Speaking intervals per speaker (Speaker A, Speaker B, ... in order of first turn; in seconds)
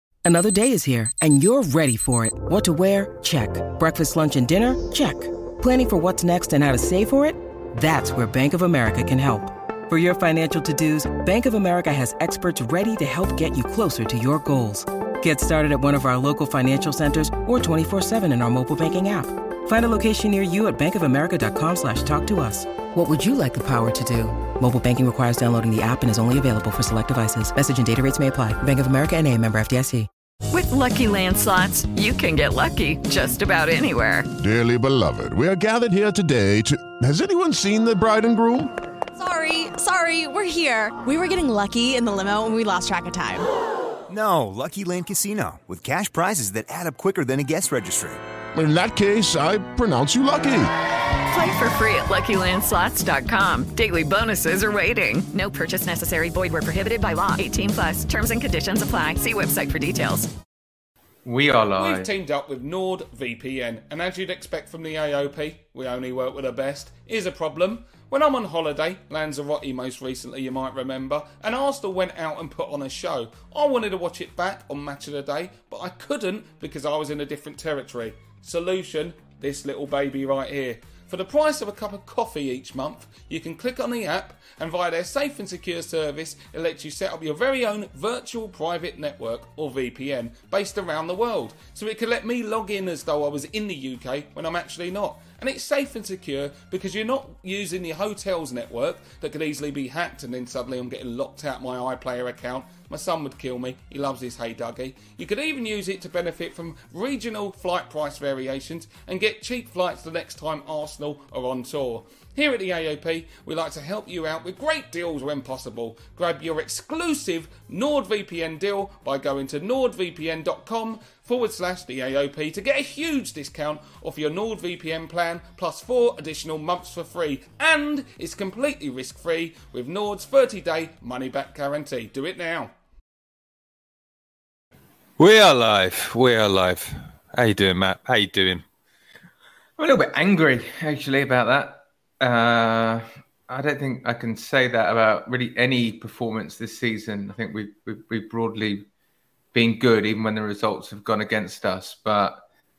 Speaker A: 0.2-30.1
Speaker B: 30.5-34.3, 51.3-60.3
Speaker C: 34.4-38.7, 48.5-50.7
Speaker D: 39.2-43.5
Speaker E: 44.1-48.2
Speaker F: 61.2-62.1, 139.8-148.9, 149.5-152.4
Speaker G: 61.8-132.7
Speaker H: 135.2-138.6